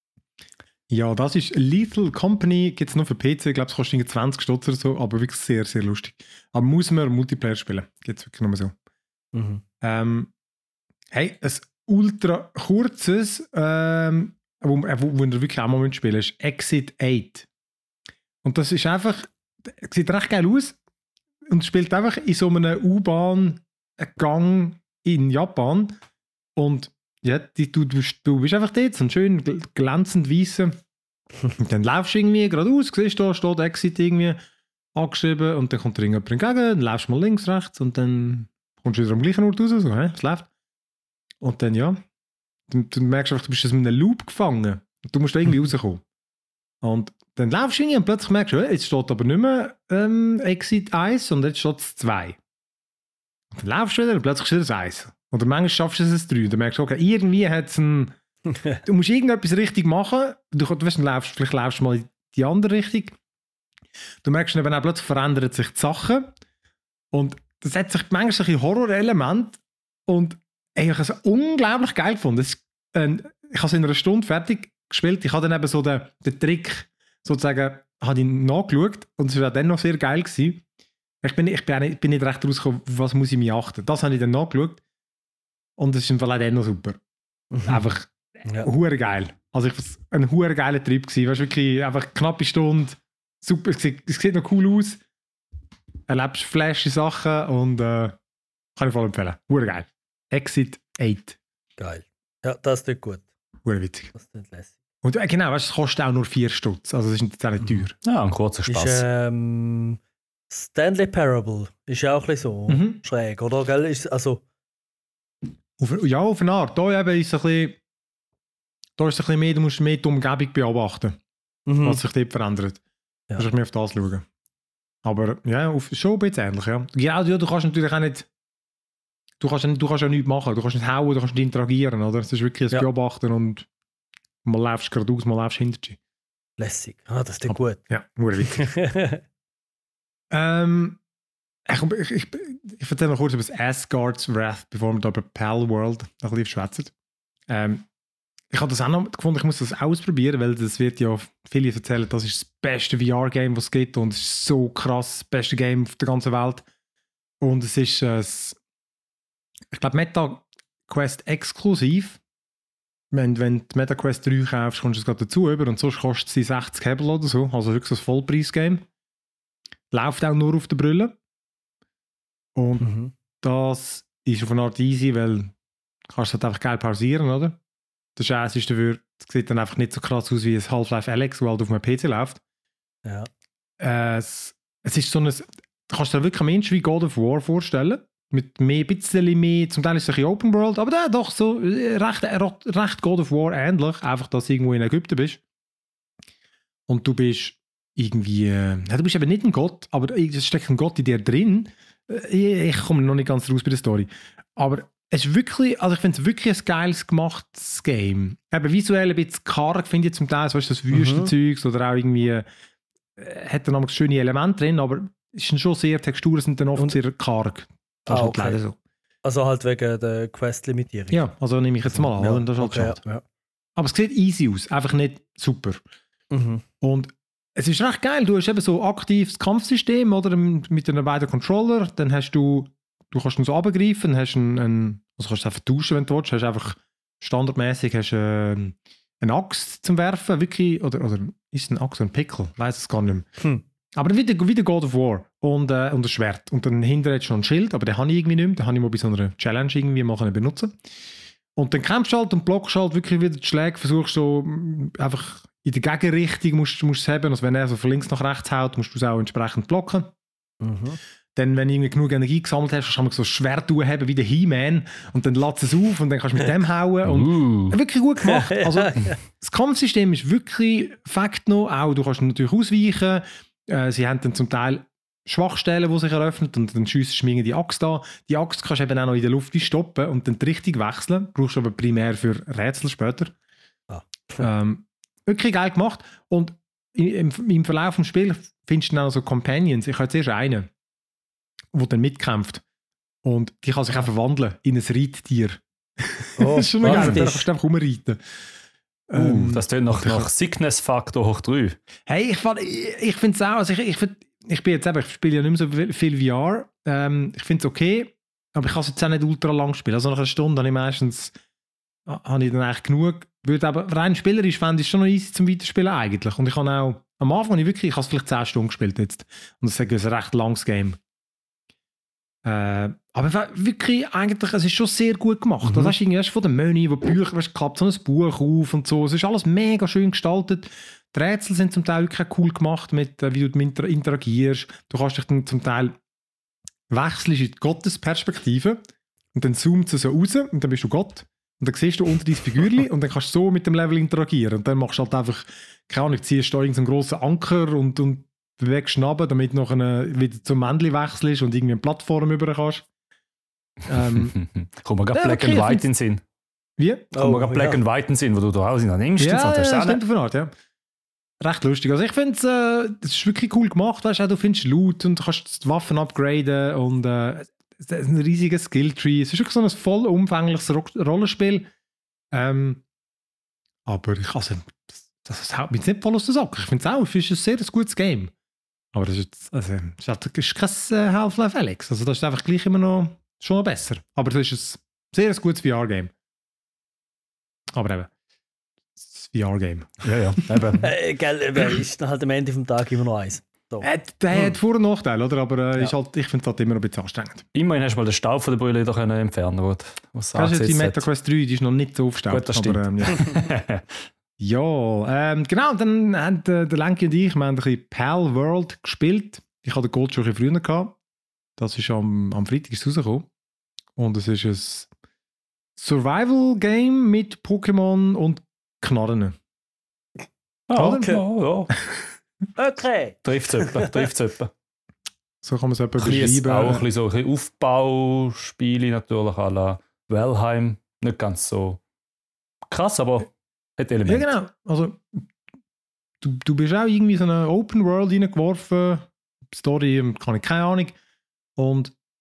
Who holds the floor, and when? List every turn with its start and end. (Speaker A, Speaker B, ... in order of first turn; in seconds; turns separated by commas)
Speaker A: 0.9-8.7, Speaker B: 9.3-9.6, Speaker A: 9.8-10.3, Speaker A: 11.1-17.5, Speaker A: 18.4-20.8, Speaker A: 21.5-26.0, Speaker A: 26.6-30.8, Speaker A: 31.6-34.4, Speaker A: 34.9-40.5, Speaker A: 41.4-42.0, Speaker A: 42.7-46.0, Speaker A: 46.8-52.4, Speaker A: 53.5-58.1, Speaker A: 58.8-63.2, Speaker A: 64.2-66.3, Speaker A: 67.1-80.6, Speaker A: 81.2-84.8, Speaker A: 85.8-87.0, Speaker B: 87.5-87.9, Speaker A: 87.7-95.0, Speaker A: 96.1-98.2, Speaker A: 98.8-101.4, Speaker B: 101.8-103.2, Speaker A: 103.7-104.1, Speaker B: 104.1-104.8, Speaker A: 105.0-108.0, Speaker C: 108.0-109.0, Speaker B: 108.7-110.0, Speaker B: 110.5-114.4, Speaker A: 112.7-113.0, Speaker A: 115.8-117.8, Speaker A: 119.0-121.2, Speaker B: 121.7-122.0, Speaker A: 121.8-122.8, Speaker A: 123.4-124.3, Speaker A: 125.0-128.3, Speaker A: 129.4-133.7, Speaker A: 134.4-136.0, Speaker B: 136.6-137.8, Speaker A: 137.5-138.7, Speaker B: 138.5-139.2, Speaker A: 140.3-141.0, Speaker A: 141.7-146.9, Speaker A: 147.5-147.9, Speaker A: 148.5-156.7, Speaker A: 157.4-158.6, Speaker A: 159.7-162.2, Speaker A: 163.1-168.8, Speaker A: 169.9-171.2, Speaker A: 172.6-172.8, Speaker B: 172.8-173.1, Speaker A: 173.4-175.5, Speaker A: 176.1-177.6, Speaker A: 178.2-182.4, Speaker A: 183.8-195.4, Speaker A: 196.9-212.5, Speaker B: 210.9-211.3, Speaker A: 213.2-218.8, Speaker B: 218.1-218.6, Speaker B: 219.2-221.3, Speaker A: 221.1-223.0, Speaker B: 221.9-223.2, Speaker A: 223.8-225.8, Speaker B: 226.3-226.6, Speaker A: 226.8-243.3, Speaker A: 243.9-250.8, Speaker A: 251.6-260.1, Speaker B: 260.6-261.0, Speaker A: 261.4-283.3, Speaker C: 267.1-267.8, Speaker B: 268.2-269.2, Speaker B: 283.9-284.5, Speaker A: 284.4-290.7, Speaker A: 291.7-292.6, Speaker A: 293.2-298.2, Speaker B: 296.4-297.5, Speaker C: 296.9-297.2, Speaker A: 299.1-300.3, Speaker C: 299.1-301.8, Speaker A: 302.1-311.4, Speaker A: 312.1-321.0, Speaker A: 322.4-336.0, Speaker A: 336.9-338.8, Speaker A: 339.3-352.9, Speaker A: 353.9-354.3, Speaker C: 354.1-356.2, Speaker A: 355.1-355.9, Speaker A: 356.8-357.1, Speaker B: 357.1-357.8, Speaker C: 357.2-360.0, Speaker A: 359.2-360.5, Speaker A: 361.4-371.7, Speaker A: 372.3-372.8, Speaker A: 373.9-378.3, Speaker A: 378.9-386.1, Speaker A: 387.7-388.1, Speaker A: 389.1-390.1, Speaker C: 390.0-390.9, Speaker B: 390.8-394.6, Speaker A: 393.8-397.4, Speaker C: 397.5-401.0, Speaker A: 400.4-403.5, Speaker C: 402.3-403.9, Speaker A: 404.4-411.0, Speaker A: 411.6-413.3, Speaker A: 414.0-414.9, Speaker A: 415.8-419.4, Speaker C: 420.7-421.7, Speaker A: 420.8-421.1, Speaker B: 422.6-424.0, Speaker C: 423.2-424.5, Speaker A: 425.4-426.9, Speaker C: 426.0-431.8, Speaker C: 432.7-434.3, Speaker A: 434.1-435.2, Speaker A: 436.2-441.0, Speaker A: 441.6-441.9